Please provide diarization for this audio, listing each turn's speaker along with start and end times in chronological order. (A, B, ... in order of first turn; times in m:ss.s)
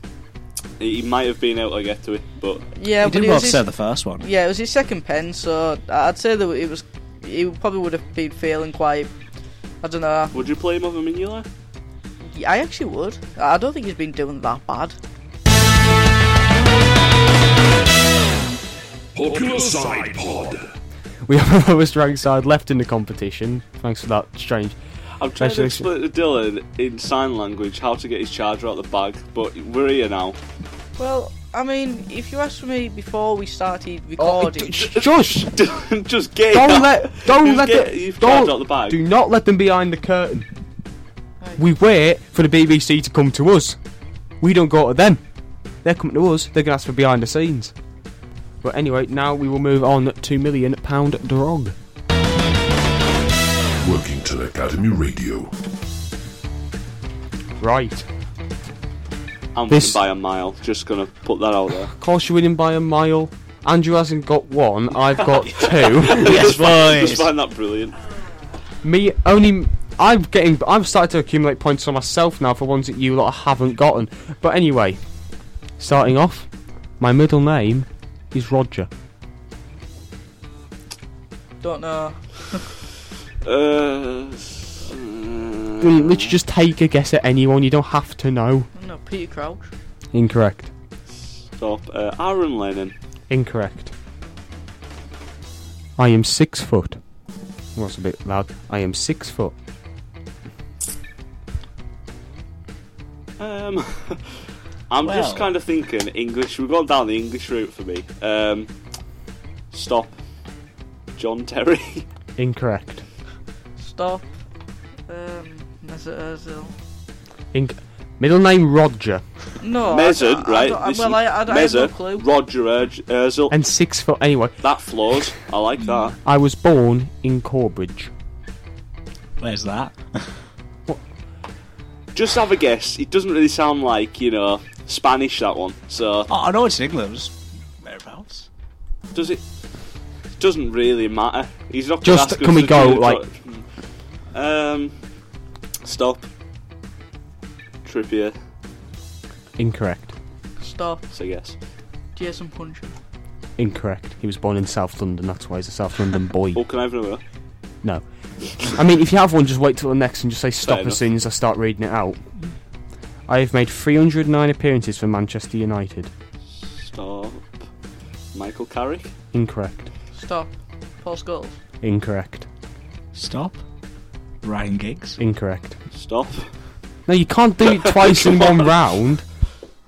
0:00.8-0:02.7 A
0:02.7-0:03.7 B
0:03.0-0:04.2 C
0:04.2-0:09.1 B
0:09.8-0:10.4 B
0:10.3-0:11.5 A
0:12.2-0:15.0 B
0:19.1-0:20.7 D
0:21.3-0:24.8 E
0:25.2-0:30.4 A
0:25.4-0:25.9 E
0:31.0-0:35.0 B
0:34.2-0:35.5 E
0:35.0-0:39.0 A
0:36.5-0:40.5 E
0:41.6-0:43.8 E
0:44.4-0:45.2 E
0:45.8-0:47.7 E
0:48.6-0:51.7 E
0:53.8-0:55.5 D
0:57.6-0:58.1 E
0:59.5-1:01.9 A
0:59.7-1:00.0 E
1:01.9-1:06.4 E
1:05.2-1:07.3 C
1:06.0-1:08.0 A
1:08.8-1:15.0 E
1:15.8-1:18.9 E
1:21.6-1:22.7 B
1:23.4-1:26.4 A
1:25.8-1:28.7 E
1:28.7-1:29.7 B
1:30.1-1:30.7 E
1:31.6-1:32.9 A
1:33.3-1:33.9 E
1:36.0-1:37.0 E
1:37.7-1:39.5 E
1:43.4-1:48.7 A
1:45.0-1:45.5 C
1:49.7-1:50.2 A
1:51.2-1:52.0 A
1:52.4-1:53.0 E
1:53.8-1:54.3 B
1:55.1-1:56.7 B
1:57.5-1:59.2 E
1:59.6-2:02.2 B
1:59.9-2:03.5 A
2:03.5-2:04.6 E
2:04.6-2:06.2 A
2:06.2-2:08.1 E
2:09.4-2:10.4 C
2:12.1-2:16.3 A
2:16.3-2:18.5 C
2:19.1-2:19.4 A
2:20.3-2:23.7 A
2:22.0-2:23.2 E
2:24.3-2:25.0 A
2:25.8-2:26.2 A
2:27.8-2:28.4 A
2:29.6-2:30.1 E
2:30.6-2:31.0 B
2:31.1-2:31.6 A
2:32.1-2:32.9 B
2:33.6-2:36.6 E
2:36.5-2:37.2 A
2:37.8-2:42.2 E
2:40.6-2:41.0 A
2:43.3-2:46.1 E
2:46.6-2:47.5 A
2:48.3-2:49.1 A
2:49.3-2:49.9 E
2:50.1-2:50.5 B
2:51.0-2:51.6 B
2:51.8-2:52.4 E
2:53.1-2:53.6 C
2:54.4-2:55.2 C
2:55.2-2:55.8 E
2:55.9-2:56.5 A
2:57.1-2:59.3 E
2:57.8-2:58.5 A